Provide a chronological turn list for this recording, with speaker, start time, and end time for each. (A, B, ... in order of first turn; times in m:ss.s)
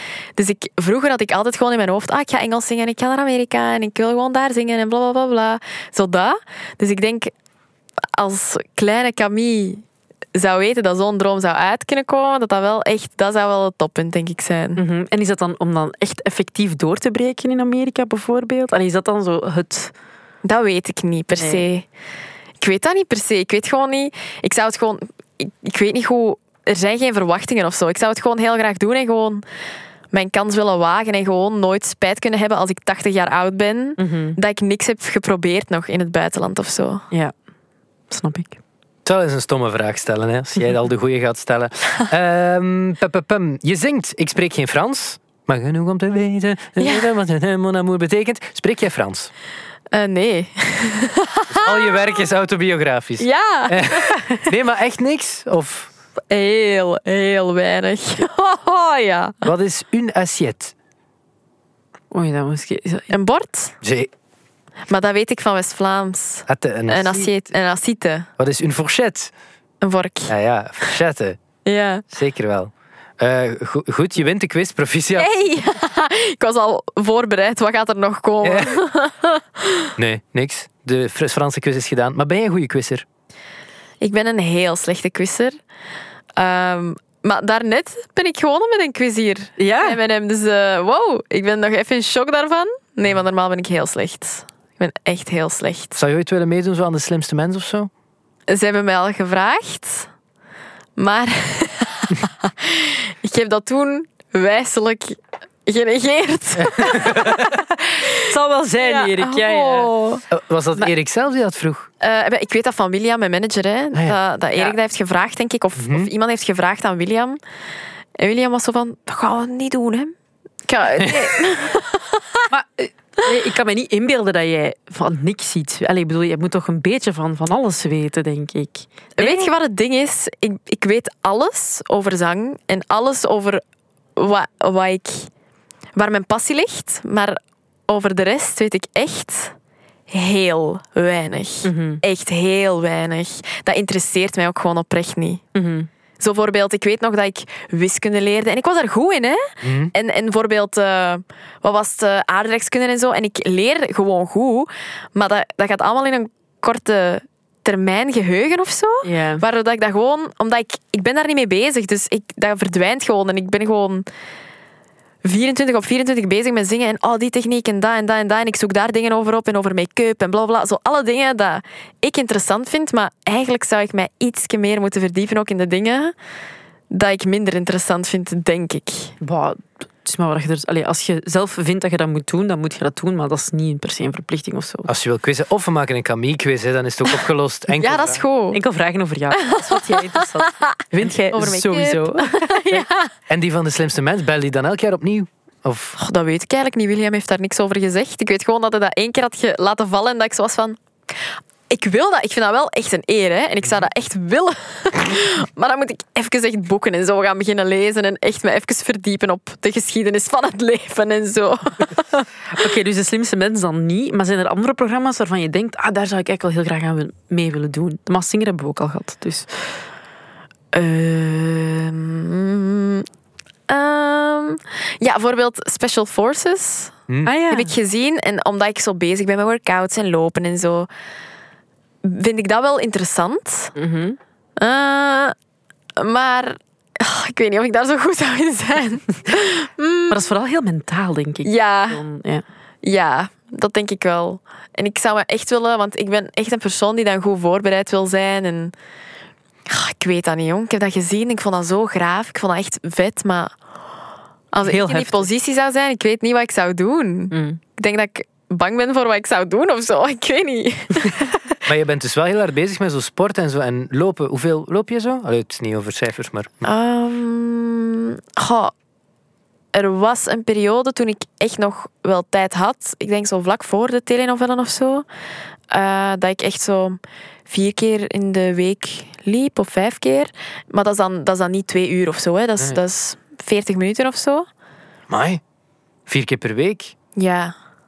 0:00.4-0:07.3 A
0:08.1-0:14.8 A
0:14.8-0:19.9 B
0:20.4-0:21.9 A
0:21.4-0:21.6 B
0:22.6-0:29.4 A
0:30.1-0:37.0 A
0:34.0-0:34.4 B
0:38.1-0:38.6 B
0:39.0-0:49.3 C
0:46.8-0:47.0 A
0:49.9-0:51.9 A
0:51.5-0:55.9 C
0:53.2-0:54.2 A
0:56.3-0:59.4 A
0:59.4-1:00.7 C
1:02.1-1:03.1 B
1:03.1-1:03.8 A
1:03.8-1:04.1 C
1:04.9-1:08.3 A
1:06.5-1:07.3 C
1:08.4-1:09.3 C
1:09.8-1:10.3 A
1:10.3-1:11.4 C
1:11.6-1:12.0 A
1:12.1-1:15.3 C
1:15.2-1:19.9 A
1:18.4-1:18.8 C
1:20.0-1:23.0 C
1:24.0-1:25.6 A
1:26.4-1:36.0 A
1:29.6-1:30.0 B
1:35.9-1:37.9 C
1:38.5-1:40.1 A
1:41.0-1:47.4 A
1:46.6-1:47.5 C
1:47.4-1:50.0 B
1:48.8-1:50.2 A
1:50.3-1:51.9 C
1:52.0-1:57.4 A
1:55.8-1:56.1 C
1:58.2-2:00.1 A
2:00.7-2:02.4 A
2:02.5-2:09.5 B
2:09.2-2:13.6 A
2:14.2-2:15.3 A
2:16.0-2:19.5 A
2:20.1-2:25.4 A
2:21.6-2:22.0 B
2:25.5-2:25.9 B
2:26.2-2:44.0 A
2:29.6-2:29.9 C
2:39.0-2:39.4 B
2:45.2-2:56.1 A
2:56.9-2:59.2 A
2:59.2-3:04.9 B
3:04.9-3:08.2 C
3:07.8-3:08.6 A
3:08.5-3:12.8 B
3:09.4-3:13.1 A
3:13.3-3:16.0 C
3:16.0-3:20.8 A
3:21.7-3:32.2 A
3:32.5-3:39.7 B
3:40.7-3:43.0 A
3:43.7-3:47.0 A
3:47.1-3:47.3 C
3:47.2-3:47.7 B
3:47.5-3:50.9 A
3:52.0-3:53.7 A
3:53.8-3:54.2 B
3:54.6-3:55.3 A
3:56.0-4:00.2 A
4:00.1-4:02.4 B
4:01.4-4:02.0 A
4:02.8-4:08.7 A
4:09.7-4:13.5 A
4:14.5-4:21.3 A
4:17.3-4:17.6 B
4:21.6-4:26.6 C
4:26.6-4:28.7 A
4:29.7-4:35.0 A
4:35.7-4:44.5 A
4:45.1-4:45.4 C
4:46.1-4:46.9 C
4:47.2-4:47.5 A